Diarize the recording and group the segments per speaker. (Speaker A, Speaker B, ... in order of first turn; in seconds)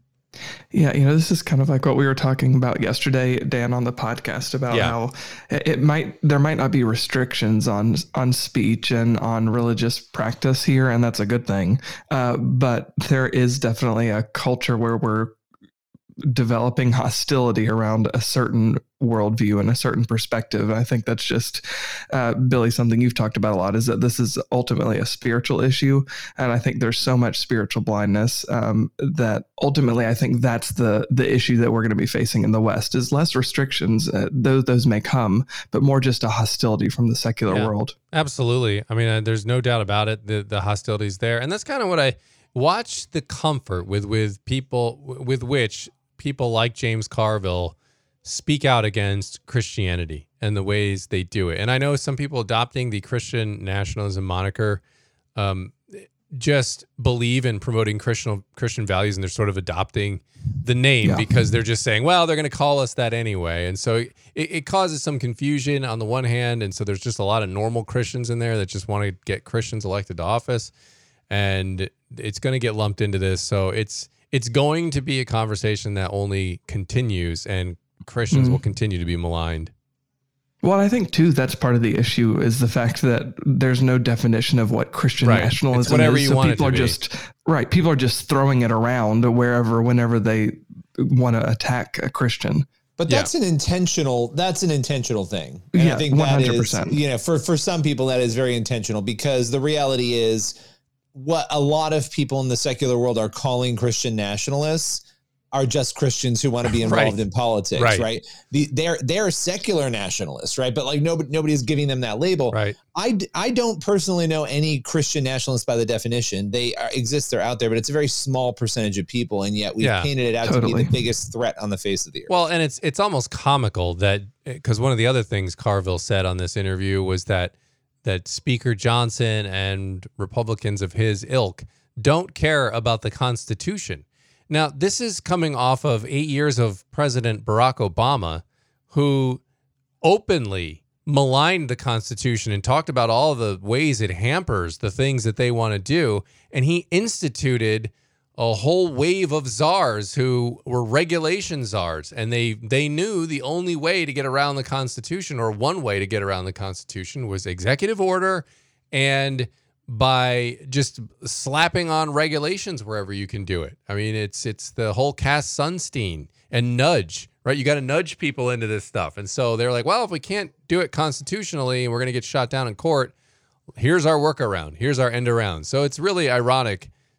Speaker A: 0.7-15.4, 16.3-38.0, 61.0-61.3, 78.3-78.6, 80.6-92.7, 95.7-97.0, 120.4-120.9
Speaker B: 4.7-5.0, 37.5-54.8, 55.4-70.7, 71.3-79.7, 85.2-87.0, 106.9-107.2, 107.8-108.1, 119.8-120.1, 122.3-139.4, 140.0-173.1, 173.8-176.9
Speaker C: 93.0-100.5, 101.1-122.3